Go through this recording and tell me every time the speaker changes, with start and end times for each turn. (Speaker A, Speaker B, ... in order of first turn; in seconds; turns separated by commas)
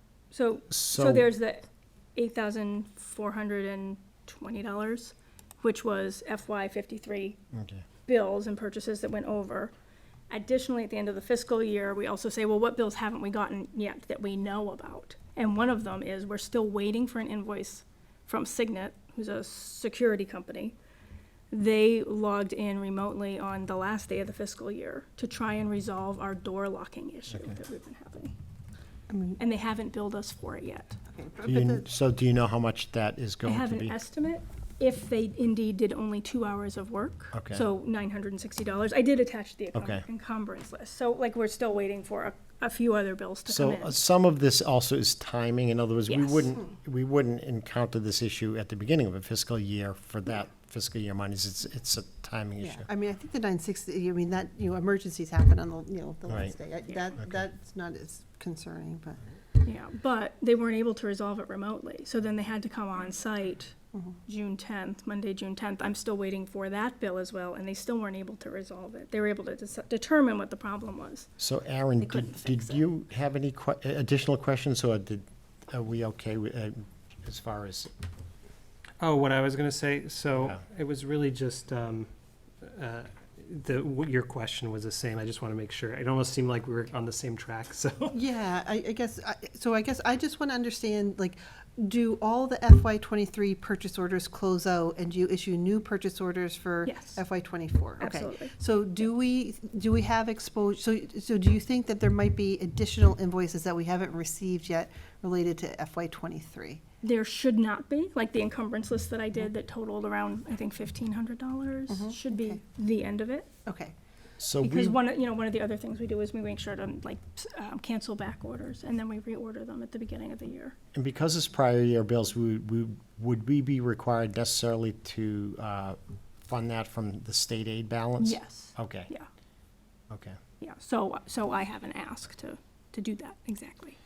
Speaker A: 0.3-7.4, Speaker B: 0.7-1.3, Speaker B: 7.5-7.8, Speaker A: 8.1-9.7, Speaker A: 10.3-20.8, Speaker A: 21.5-28.3, Speaker B: 27.3-27.6, Speaker C: 29.1-29.4, Speaker A: 29.4-31.0, Speaker C: 31.1-31.9, Speaker B: 31.4-34.0, Speaker A: 33.4-43.9, Speaker B: 37.3-37.7, Speaker B: 39.8-40.0, Speaker B: 43.5-52.9, Speaker A: 46.1-46.5, Speaker C: 52.6-59.2, Speaker B: 56.3-56.5, Speaker A: 59.6-63.8, Speaker A: 64.3-71.3, Speaker B: 71.4-77.9, Speaker A: 72.2-72.5, Speaker D: 79.0-82.1, Speaker D: 82.6-88.2, Speaker C: 88.1-106.8, Speaker A: 96.9-97.2, Speaker A: 98.0-98.5, Speaker A: 107.0-113.5, Speaker C: 111.9-112.6, Speaker C: 113.7-114.0, Speaker B: 114.4-115.0, Speaker A: 114.6-120.8, Speaker B: 120.9-129.1, Speaker A: 128.2-129.3, Speaker B: 130.1-130.4, Speaker A: 130.6-134.0